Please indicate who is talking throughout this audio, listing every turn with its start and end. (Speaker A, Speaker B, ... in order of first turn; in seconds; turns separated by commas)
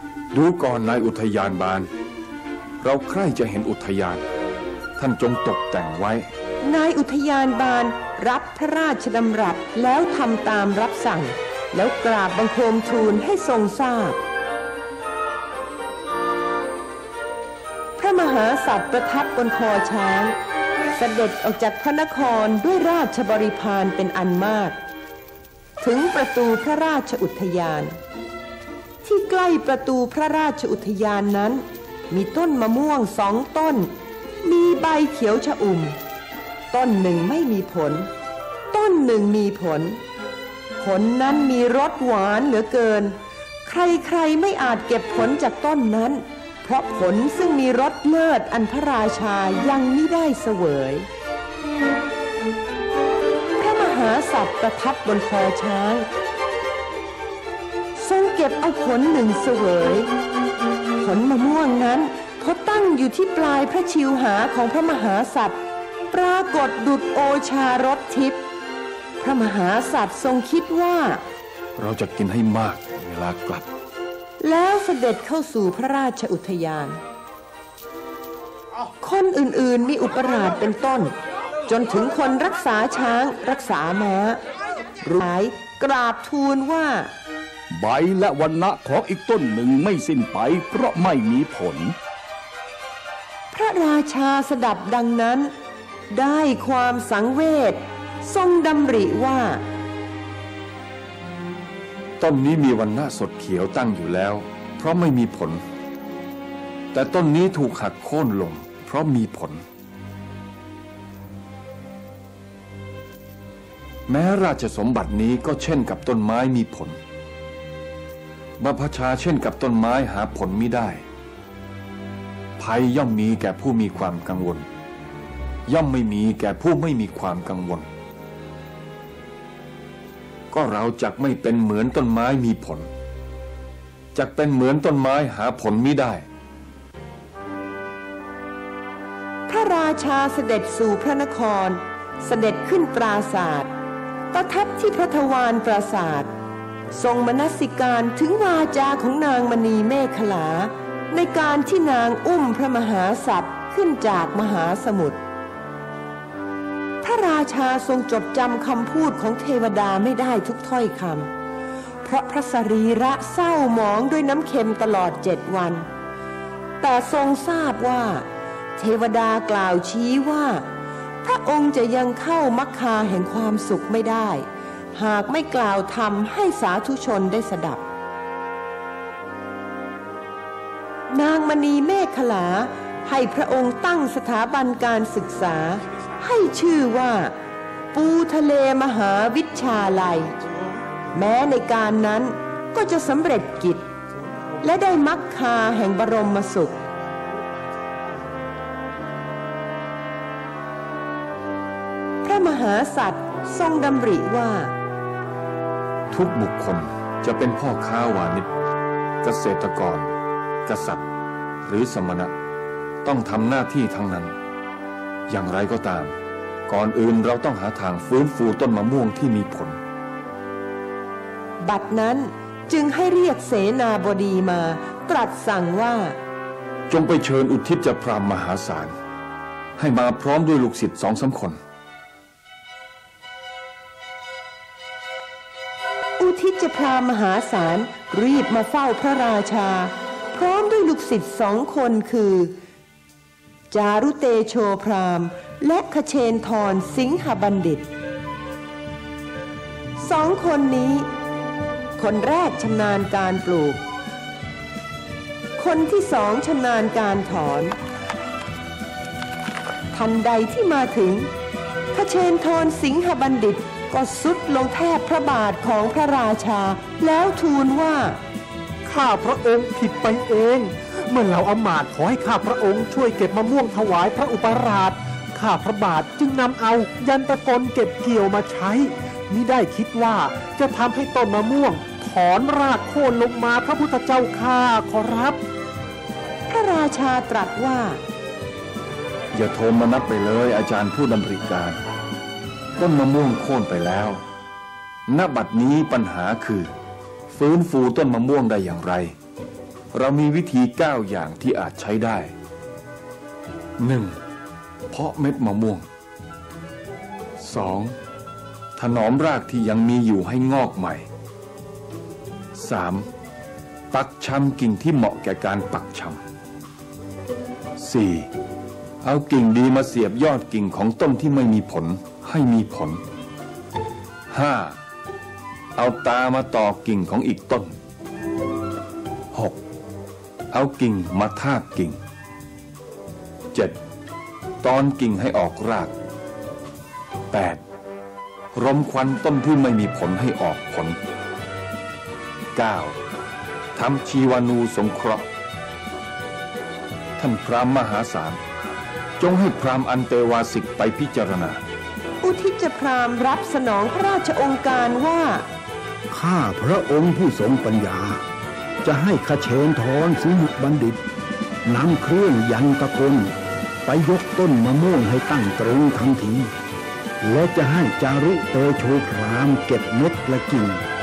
Speaker A: 0.3-1.9, Speaker A: 2.8-4.2, Speaker A: 5.0-6.3, Speaker B: 6.6-14.2, Speaker B: 18.0-20.3, Speaker B: 20.9-24.8, Speaker B: 25.8-28.0, Speaker B: 29.0-33.9, Speaker B: 34.4-36.0, Speaker B: 36.7-38.1, Speaker B: 38.7-40.0, Speaker B: 40.8-51.1, Speaker B: 53.6-56.1, Speaker B: 58.0-60.1, Speaker B: 61.0-68.4, Speaker B: 69.2-71.2, Speaker A: 71.8-73.7, Speaker B: 74.4-77.0, Speaker B: 79.0-81.1, Speaker B: 81.7-84.4, Speaker B: 85.0-87.1, Speaker C: 87.7-92.0, Speaker B: 93.5-95.5, Speaker B: 96.1-99.6, Speaker A: 102.2-105.6, Speaker A: 106.9-109.6, Speaker A: 114.1-117.0, Speaker A: 118.6-121.0, Speaker A: 122.6-124.7, Speaker A: 125.7-127.9, Speaker A: 130.5-132.9, Speaker A: 134.1-136.2, Speaker B: 139.5-143.7, Speaker B: 144.3-146.3, Speaker B: 146.9-155.2, Speaker B: 157.0-161.3, Speaker B: 162.0-165.9, Speaker B: 166.8-168.2, Speaker B: 168.8-170.6, Speaker B: 171.2-177.8, Speaker B: 181.1-187.3, Speaker B: 187.9-190.3, Speaker B: 191.1-193.9, Speaker B: 194.6-196.8, Speaker B: 202.2-204.7, Speaker A: 206.1-208.5, Speaker A: 209.2-210.1, Speaker A: 210.7-211.0, Speaker A: 211.7-212.3, Speaker A: 213.0-214.3, Speaker A: 215.3-216.1, Speaker A: 216.7-219.8, Speaker B: 221.6-226.2, Speaker A: 226.9-228.9, Speaker A: 229.8-231.6, Speaker B: 236.2-242.6, Speaker B: 243.7-247.9, Speaker B: 250.0-251.1, Speaker B: 252.0-253.8, Speaker B: 255.6-257.8, Speaker B: 259.9-261.3, Speaker B: 261.9-268.2, Speaker D: 268.8-285.4, Speaker B: 286.5-288.0, Speaker A: 289.3-291.8, Speaker A: 292.8-294.2, Speaker A: 295.1-296.7, Speaker A: 297.3-299.1, Speaker A: 299.9-302.3, Speaker A: 303.8-304.2, Speaker A: 304.9-305.9, Speaker A: 307.4-307.9, Speaker A: 308.8-311.1, Speaker A: 312.5-313.1, Speaker A: 313.9-316.2, Speaker A: 317.8-318.3, Speaker A: 319.0-323.0, Speaker A: 324.3-324.8, Speaker A: 325.8-327.7, Speaker A: 330.5-332.0, Speaker A: 334.6-335.9, Speaker A: 337.3-337.6, Speaker A: 338.5-341.0, Speaker A: 342.5-343.0, Speaker A: 343.7-345.3, Speaker A: 347.2-348.4, Speaker A: 349.2-351.6, Speaker B: 352.2-355.4, Speaker E: 356.1-358.2, Speaker E: 358.8-361.0, Speaker E: 361.6-363.3, Speaker E: 363.9-366.5, Speaker E: 367.2-370.8